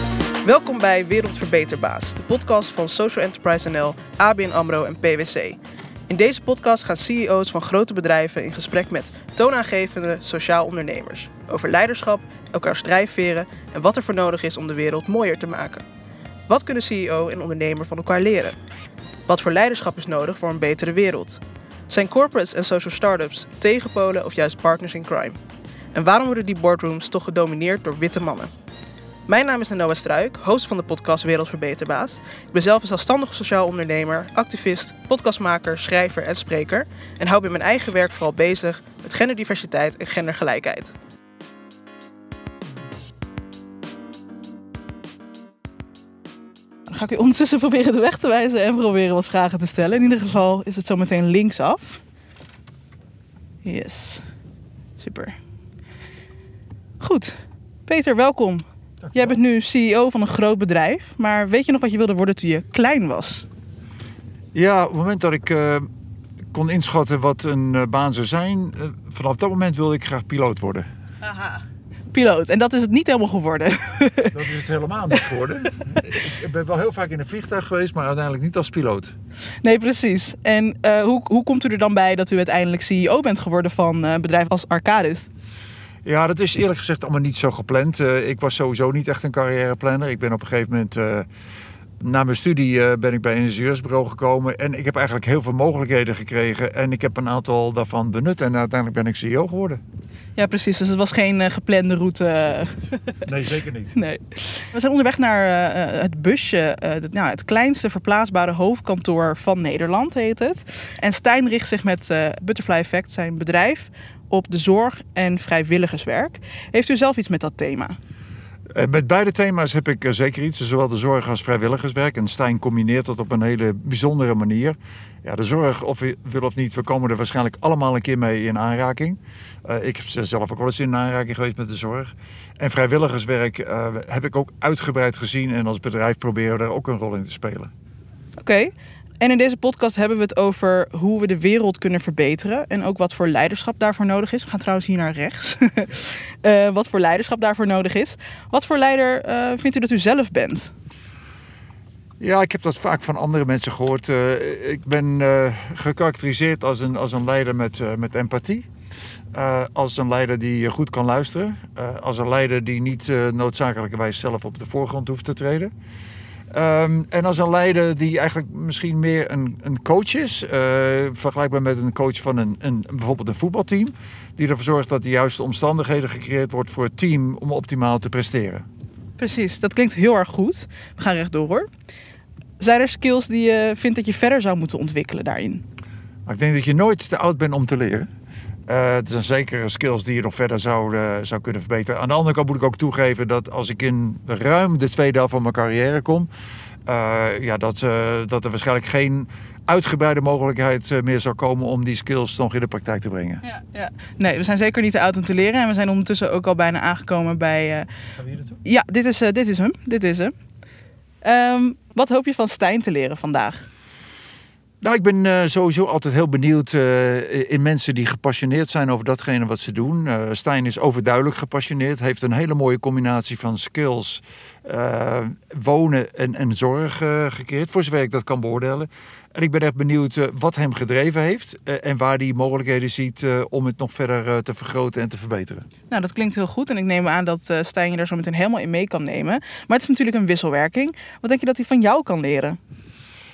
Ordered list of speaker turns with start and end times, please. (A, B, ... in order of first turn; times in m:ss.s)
0:00.4-0:05.6 A
0:06.1-0:15.8 A
0:16.5-0:18.6 A
0:19.3-0:25.4 A
0:25.9-0:28.5 A
0:29.3-0:40.9 A
0:46.9-0:52.0 A
0:53.6-0:54.2 A
0:55.0-0:55.4 A
0:57.0-1:03.4 A
1:04.5-1:05.9 B
1:06.5-1:10.9 B
1:12.1-1:14.4 A
1:14.3-1:19.1 B
1:19.6-1:25.3 A
1:26.0-1:31.3 B
1:32.0-1:39.8 B
1:40.4-1:43.1 A
1:43.2-1:43.9 B
1:43.9-1:58.0 A
1:58.7-2:17.7 B
2:18.4-2:30.7 A
2:32.2-2:38.7 B
2:39.3-2:45.7 B
2:46.5-2:58.6 B
2:59.2-3:01.7 A
3:02.6-3:05.6 A
3:06.2-3:08.1 B
3:08.7-3:16.3 B
3:16.8-3:23.4 B
3:23.4-3:27.9 A
3:28.2-3:28.5 B
3:28.6-3:30.3 A
3:31.2-3:33.6 A
3:34.8-3:55.7 B
3:55.9-4:02.6 A